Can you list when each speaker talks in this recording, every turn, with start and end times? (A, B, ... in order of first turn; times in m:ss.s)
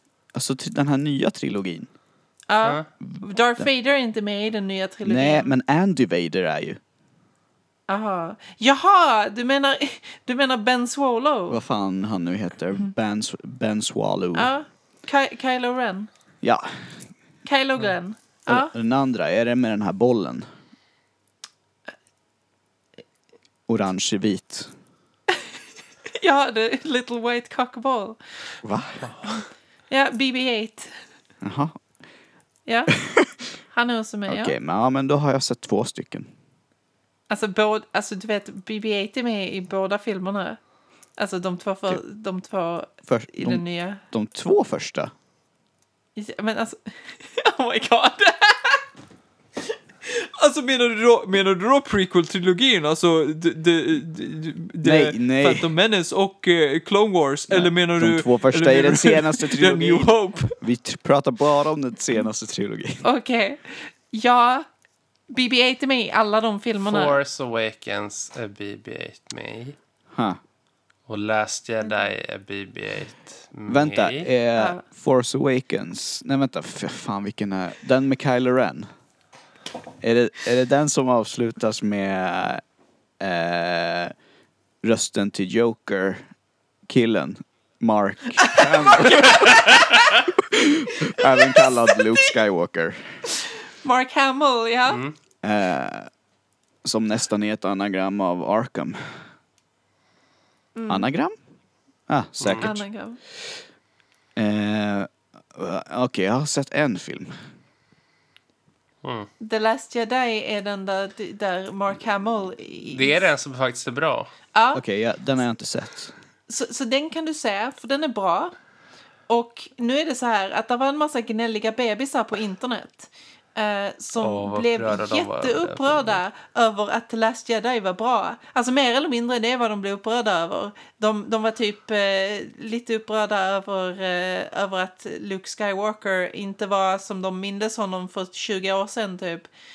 0:00.3-0:01.9 A
0:02.5-0:05.5 B
0:03.0-0:03.7 A
0:05.0-0:06.8 A
0:07.9-0:11.6 B
0:11.5-0:14.5 A
0:14.3-0:16.1 B
0:16.4-0:16.8 A
0:17.4-0:18.7 B
0:18.5-0:20.4 A
0:23.7-0:24.7 A
0:26.2-0:28.2 B
0:28.6-0:29.0 A
0:29.0-0:29.4 C
0:29.9-0:30.9 B
0:31.4-0:31.8 A
0:32.6-0:32.9 B
0:33.7-0:34.5 B
0:34.3-0:36.3 A
0:37.3-0:40.6 B
0:41.2-0:44.0 B
0:43.0-0:45.1 A
0:46.2-0:48.8 B
0:50.0-1:00.6 D
0:54.8-0:55.7 A
0:57.5-1:03.0 A
1:03.0-1:04.6 B
1:05.3-1:07.2 B
1:06.8-1:09.8 C
1:10.1-1:10.4 A
1:11.1-1:14.3 C
1:13.7-1:18.9 A
1:14.6-1:14.8 B
1:20.0-1:22.6 A
1:23.2-1:24.1 A
1:24.8-1:26.2 A
1:26.9-1:33.0 A
1:28.4-1:30.1 B
1:31.2-1:32.3 B
1:33.4-1:35.0 B
1:34.9-1:35.1 C
1:35.4-1:36.1 A
1:36.8-1:39.2 A
1:40.8-1:41.1 B
1:40.9-1:41.3 A
1:42.1-1:42.8 A
1:42.4-1:42.7 C
1:42.6-1:43.2 B
1:44.4-1:47.3 A
1:49.0-1:49.3 C
1:49.4-1:53.2 B
1:52.9-1:54.3 C
1:54.5-1:54.8 B
1:54.7-1:56.1 A
1:56.5-1:58.5 B
1:59.3-2:19.5 B
2:04.2-2:06.2 C